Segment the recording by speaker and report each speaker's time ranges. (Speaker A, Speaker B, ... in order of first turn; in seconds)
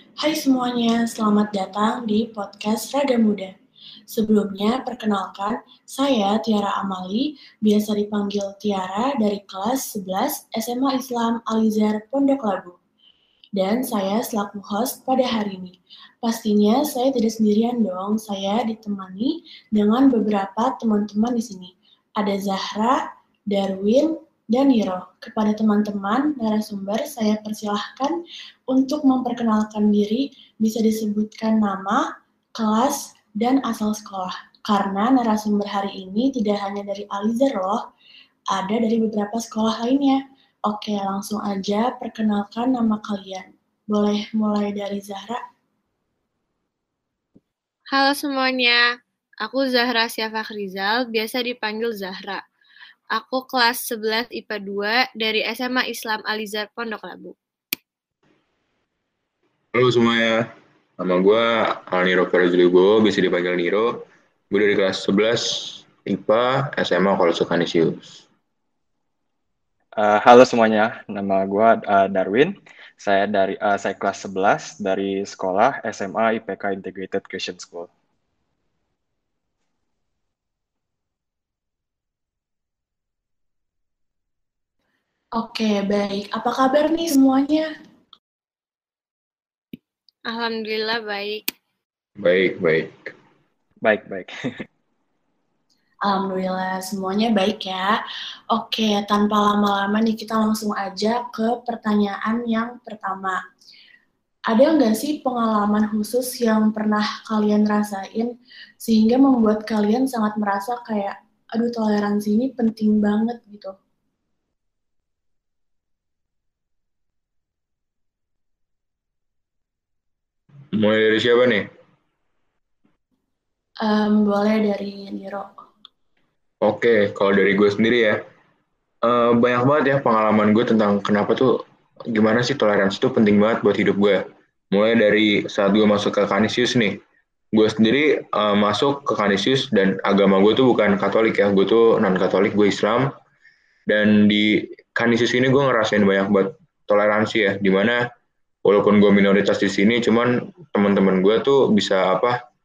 Speaker A: 0.2-3.5, 4.1-12.8, 13.6-32.0, 32.5-37.8, 38.5-45.4, 85.4-87.7, 96.0-97.9, 98.5-103.4, 104.5-108.3, 108.8-113.7, 123.8-125.5
Speaker B: 47.9-48.8, 49.4-52.4, 53.1-57.3, 90.2-91.4
Speaker C: 59.7-68.2, 92.2-93.1, 120.7-121.7, 126.6-128.2, 129.0-137.0, 137.5-143.1, 143.9-148.0, 148.6-152.4
Speaker D: 70.0-77.9, 93.8-94.6